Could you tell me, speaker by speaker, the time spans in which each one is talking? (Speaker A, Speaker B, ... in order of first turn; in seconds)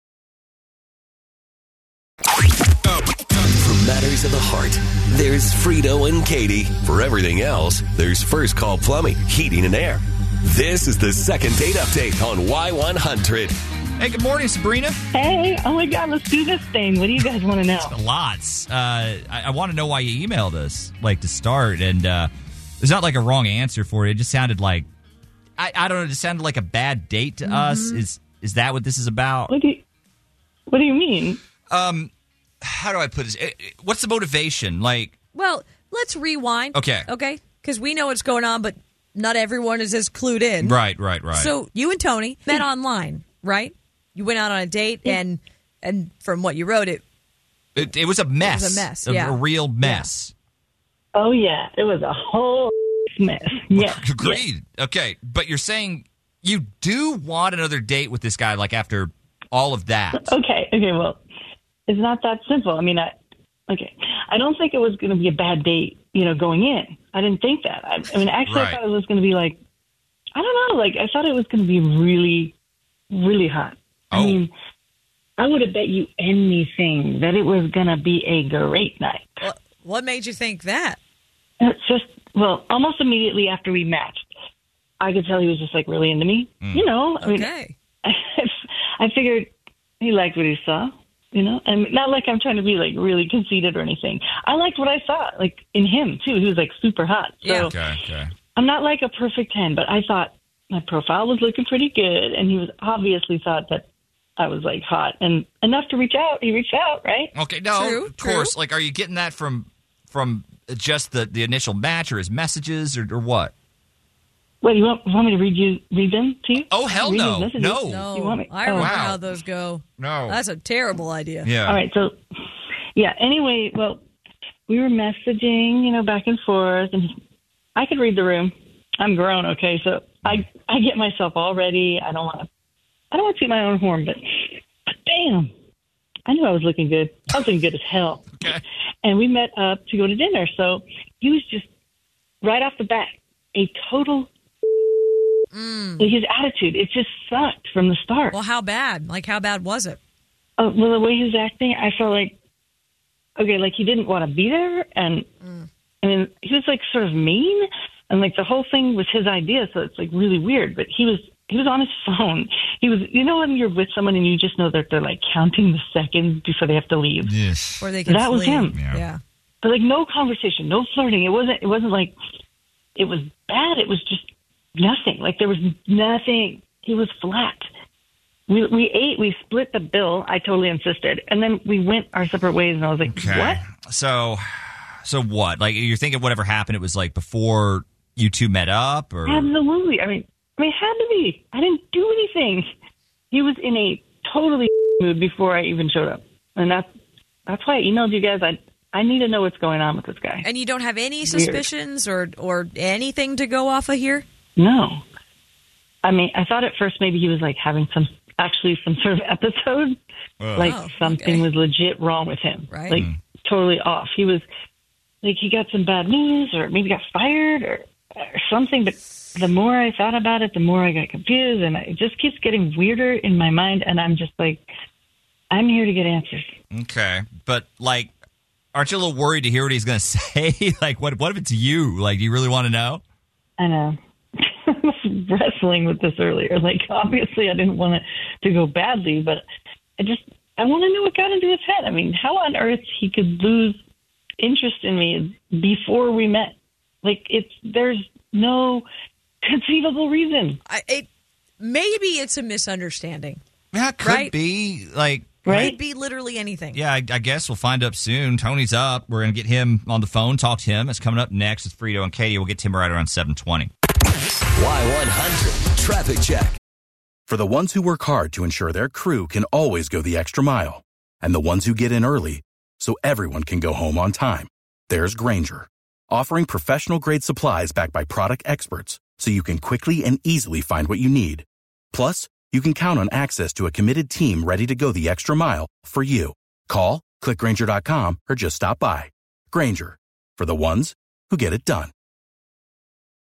Speaker A: 3.4-13.6, 264.5-266.5
Speaker B: 14.0-15.0, 17.8-24.9, 25.6-29.5, 31.7-32.1, 32.6-35.1, 36.7-37.1, 40.6-41.5, 47.8-50.3, 53.7-60.3, 68.5-68.8, 74.1-74.4, 86.6-86.9, 97.5-98.3, 107.3-113.5, 116.7-118.0, 118.7-119.2, 120.0-120.4, 121.4-121.8, 167.2-167.8, 168.7-169.0, 183.1-189.5, 210.4-210.7, 226.7-228.1, 228.7-233.0, 253.7-255.7, 256.7-263.7
Speaker C: 15.1-17.9, 29.5-29.8, 30.7-31.4, 51.1-54.4, 60.1-61.2, 61.9-63.1, 63.7-69.6, 70.3-72.5, 73.1-74.5, 75.4-79.4, 81.6-84.3, 85.0-87.5, 88.0-89.5, 90.0-97.8, 98.5-103.8, 104.4-107.3, 114.6-118.9, 121.7-122.2, 122.9-124.0, 124.7-127.1, 127.8-132.5, 133.1-135.5, 136.2-141.7, 142.4-144.3, 146.0-148.4, 150.6-152.3, 153.4-155.3, 156.0-167.3, 168.1-168.8, 169.6-172.1, 172.9-177.7, 178.5-183.6, 189.2-192.7, 193.3-196.9, 197.5-200.4, 201.2-201.7, 204.6-205.0, 206.0-210.0, 210.5-214.4, 215.2-224.7, 225.5-226.5, 233.6-239.4, 240.0-243.8, 244.4-248.8, 249.4-250.6, 255.4-255.8
Speaker D: 27.4-28.0, 35.3-40.8, 41.3-47.0, 48.4-50.1, 79.4-81.0, 87.2-87.7, 97.4-97.7, 107.7-108.5, 117.8-121.5, 145.5-146.1, 148.3-150.0, 167.8-169.2, 200.4-204.2, 210.6-211.4, 212.7-213.0, 250.7-251.1, 251.6-253.4, 254.0-254.3, 255.5-256.8
Speaker E: 267.3-291.9